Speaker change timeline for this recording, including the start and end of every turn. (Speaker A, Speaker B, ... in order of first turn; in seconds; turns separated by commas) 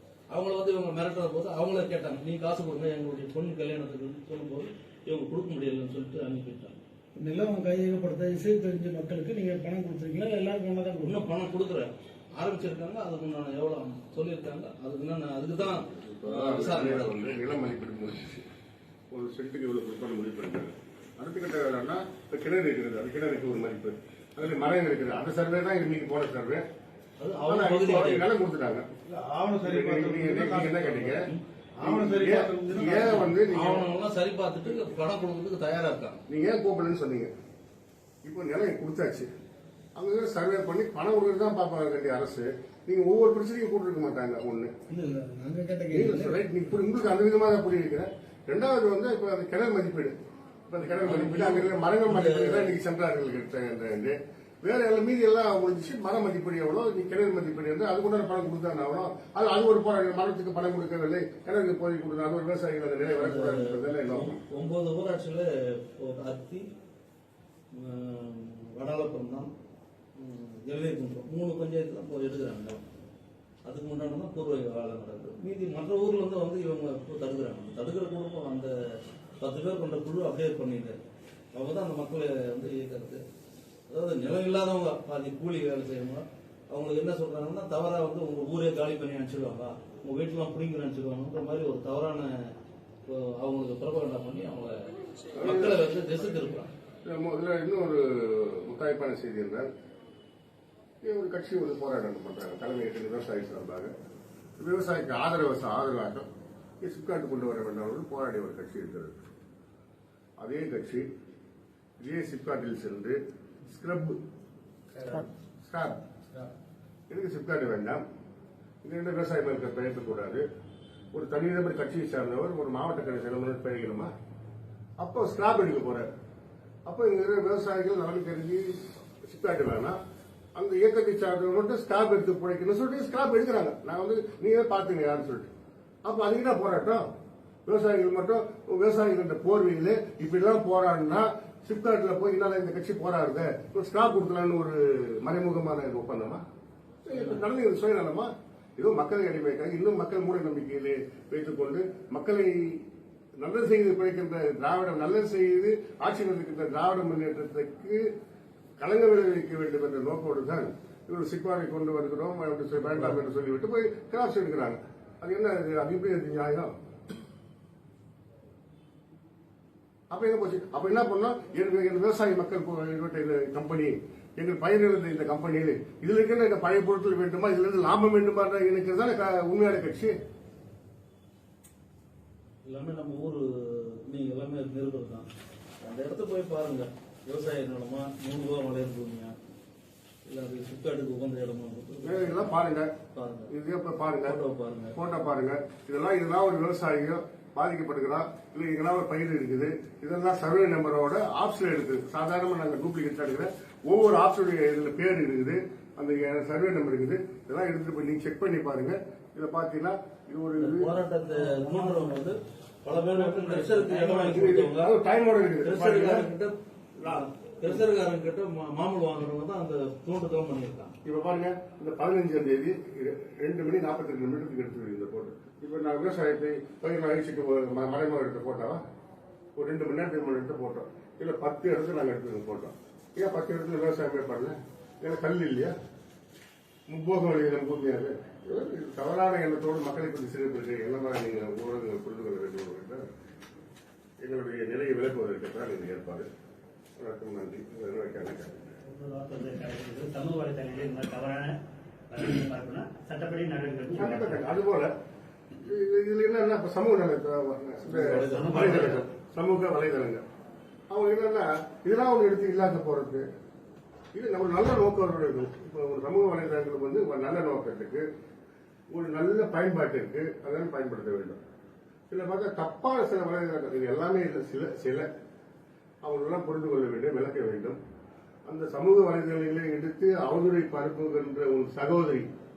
Speaker A: 0.3-6.8, Speaker B: 7.2-11.3, Speaker A: 11.0-17.4, Speaker C: 15.8-18.5, Speaker C: 19.1-26.7, Speaker A: 27.2-28.3, Speaker C: 27.4-28.9, Speaker D: 29.1-33.3, Speaker C: 29.6-31.3, Speaker C: 31.8-33.9, Speaker A: 33.0-36.2, Speaker C: 36.3-37.3, Speaker C: 38.2-39.3, Speaker C: 40.0-44.7, Speaker B: 44.9-46.4, Speaker C: 45.9-50.2, Speaker C: 50.7-64.4, Speaker A: 51.0-52.8, Speaker A: 63.1-66.7, Speaker A: 67.7-69.5, Speaker A: 70.2-72.8, Speaker A: 73.7-81.0, Speaker A: 81.5-83.2, Speaker A: 83.9-92.5, Speaker A: 93.1-94.8, Speaker C: 95.4-95.8, Speaker A: 95.4-96.7, Speaker C: 97.1-99.7, Speaker C: 101.0-103.9, Speaker C: 104.6-106.3, Speaker C: 106.8-109.2, Speaker C: 110.4-111.1, Speaker C: 112.0-114.2, Speaker E: 115.0-115.3, Speaker C: 115.7-116.0, Speaker C: 117.1-118.0, Speaker C: 118.8-120.4, Speaker C: 121.1-124.1, Speaker C: 125.0-126.1, Speaker C: 126.9-130.0, Speaker C: 130.6-135.5, Speaker C: 136.1-137.1, Speaker C: 137.7-146.4, Speaker C: 147.1-152.8, Speaker A: 147.1-147.4, Speaker C: 153.4-158.1, Speaker C: 158.8-166.7, Speaker C: 170.1-180.2, Speaker A: 182.7-185.3, Speaker A: 185.8-189.3, Speaker A: 190.2-192.6, Speaker C: 192.0-192.9, Speaker A: 193.1-193.5, Speaker C: 193.5-194.4, Speaker A: 194.3-194.9, Speaker C: 194.9-210.9, Speaker A: 210.6-214.9, Speaker E: 213.3-213.9, Speaker C: 213.9-216.3, Speaker A: 215.6-216.5, Speaker C: 217.0-217.8, Speaker A: 217.0-220.9, Speaker C: 221.0-228.8, Speaker C: 229.6-235.8, Speaker C: 236.9-243.1, Speaker C: 244.2-246.3, Speaker C: 247.0-248.7, Speaker E: 248.8-251.6, Speaker E: 252.1-254.5, Speaker C: 253.9-254.9, Speaker C: 255.6-260.2, Speaker A: 257.9-259.0, Speaker E: 257.9-259.1, Speaker C: 260.9-263.3, Speaker C: 264.1-268.1, Speaker C: 268.9-271.4, Speaker C: 272.1-275.1, Speaker C: 276.0-277.8, Speaker C: 278.5-282.3